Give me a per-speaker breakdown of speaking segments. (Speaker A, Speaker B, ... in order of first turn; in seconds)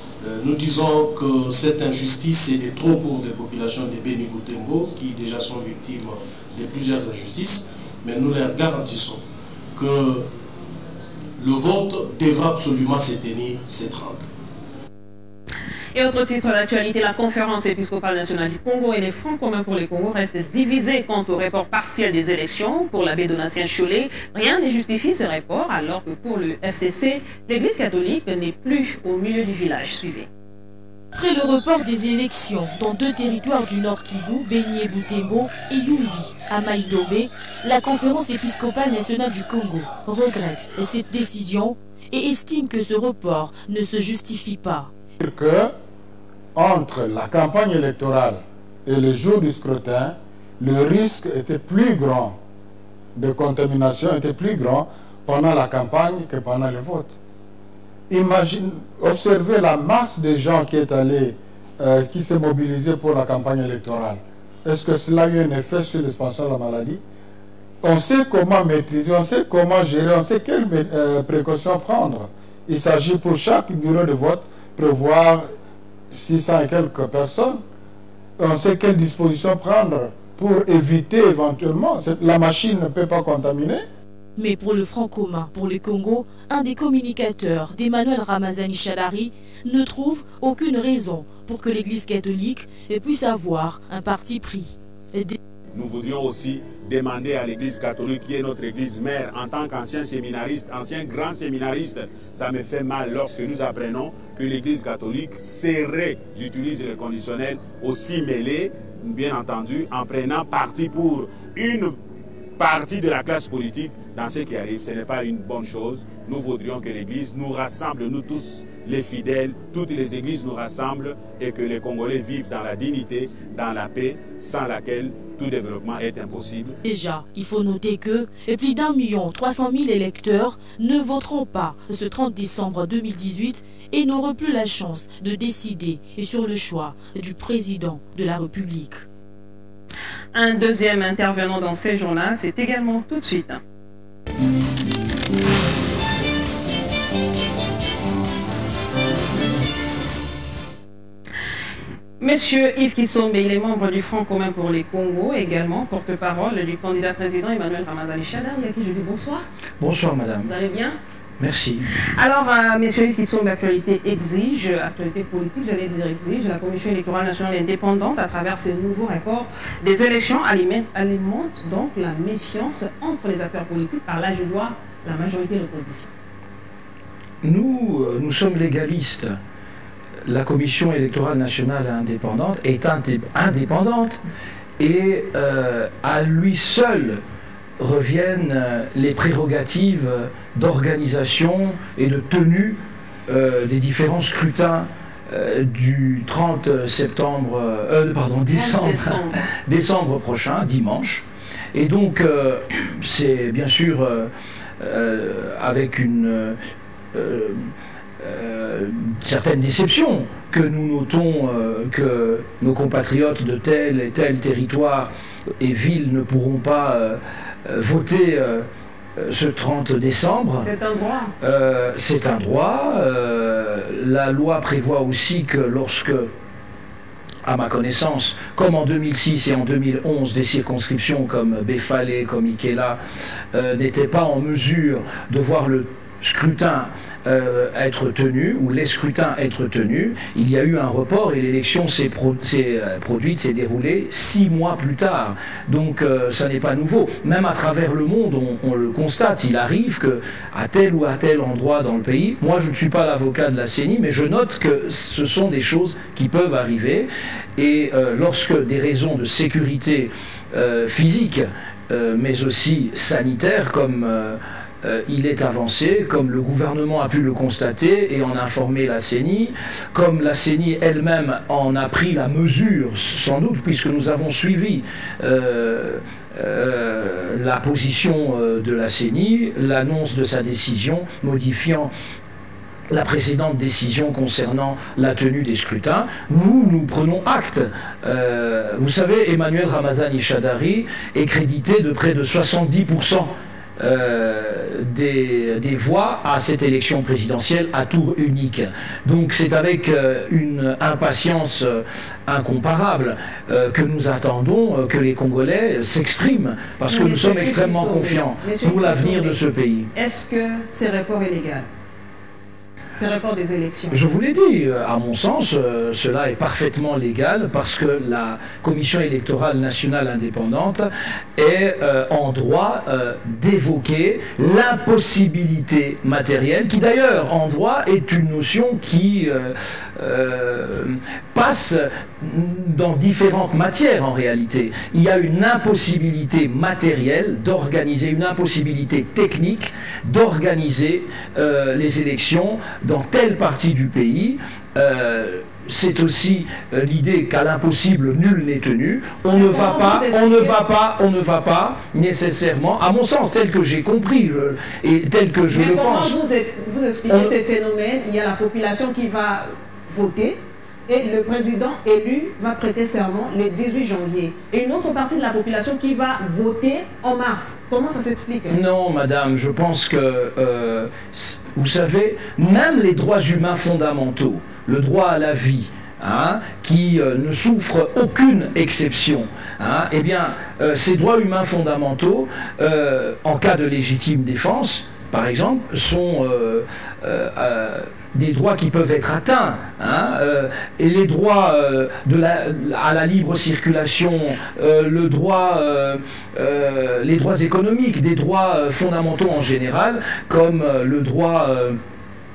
Speaker A: 0.2-9.2, 9.8-10.3, 11.4-14.3
Speaker B: 15.9-30.3, 140.3-143.6, 152.2-159.4, 160.4-161.0, 162.2-176.1, 198.5-199.4, 220.6-221.3, 306.9-309.4, 309.9-311.7, 312.9-314.0, 349.3-350.6, 355.5-368.6
Speaker C: 31.1-44.9, 84.4-95.4, 126.8-139.0
Speaker D: 45.2-45.7, 46.5-52.4, 53.1-57.1, 58.1-67.0, 67.8-75.5, 76.1-77.6, 78.4-83.8
Speaker E: 95.7-112.0, 112.6-126.8
Speaker F: 159.8-160.5, 161.4-161.8, 177.4-179.3, 180.2-184.2, 184.8-187.2, 187.8-206.6, 207.1-207.6, 208.2-215.1, 215.6-218.6, 219.2-220.7, 221.4-226.3, 227.4-233.0, 233.5-281.9, 282.9-309.9, 313.9-356.1, 357.1-357.4, 368.5-401.8